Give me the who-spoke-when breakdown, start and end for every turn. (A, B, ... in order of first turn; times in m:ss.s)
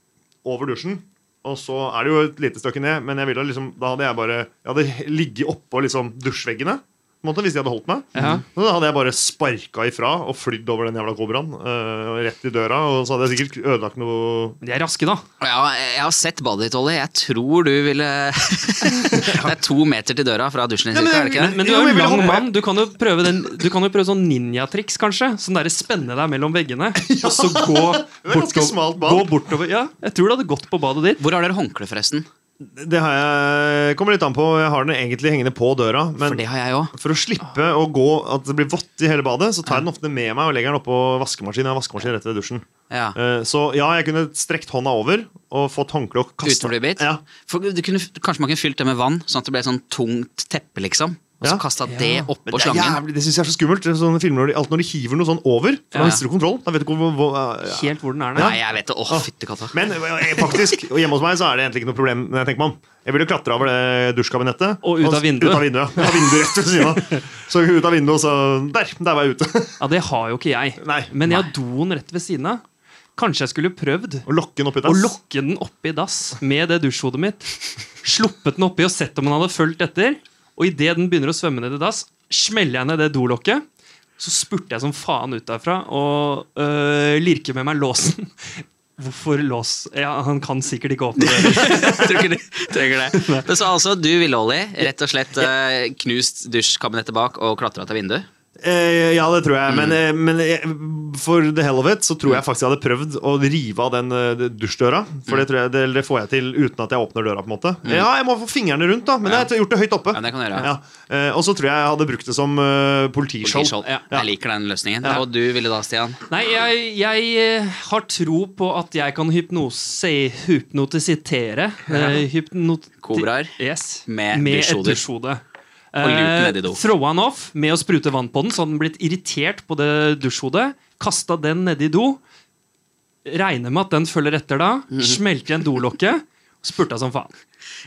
0:00.4-0:14.6 A
0:08.1-0:08.4 B
0:14.6-0:15.2 B
0:15.4-0:21.5 C
0:19.2-0:19.5 A
0:20.9-0:22.5 A
0:21.3-0:31.2 B
0:27.0-0:29.4 A
0:31.2-0:32.3 C
0:32.6-0:47.3 A
0:36.2-0:36.9 C
0:42.9-0:43.2 C
0:46.4-0:53.0 C
0:51.9-0:52.3 B
0:52.5-1:09.8 A
0:55.9-0:56.2 B
0:57.7-0:58.6 B
0:58.4-0:59.8 C
1:00.4-1:00.8 C
1:04.8-1:07.2 B
1:09.8-1:12.6 B
1:10.8-1:11.1 A
1:11.2-1:11.5 C
1:13.2-1:14.3 B
1:14.3-1:15.1 A
1:14.8-1:23.6 B
1:24.2-1:32.3 B
1:31.2-1:38.3 C
1:33.1-1:33.5 B
1:38.6-1:54.3 A
1:39.7-1:40.0 C
1:49.2-1:49.5 C
1:50.1-1:50.7 C
1:53.4-1:56.2 C
1:56.3-2:12.2 B
2:01.9-2:02.2 C
2:03.0-2:05.0 C
2:06.0-2:06.8 C
2:13.2-2:17.4 B
2:14.9-2:15.2 C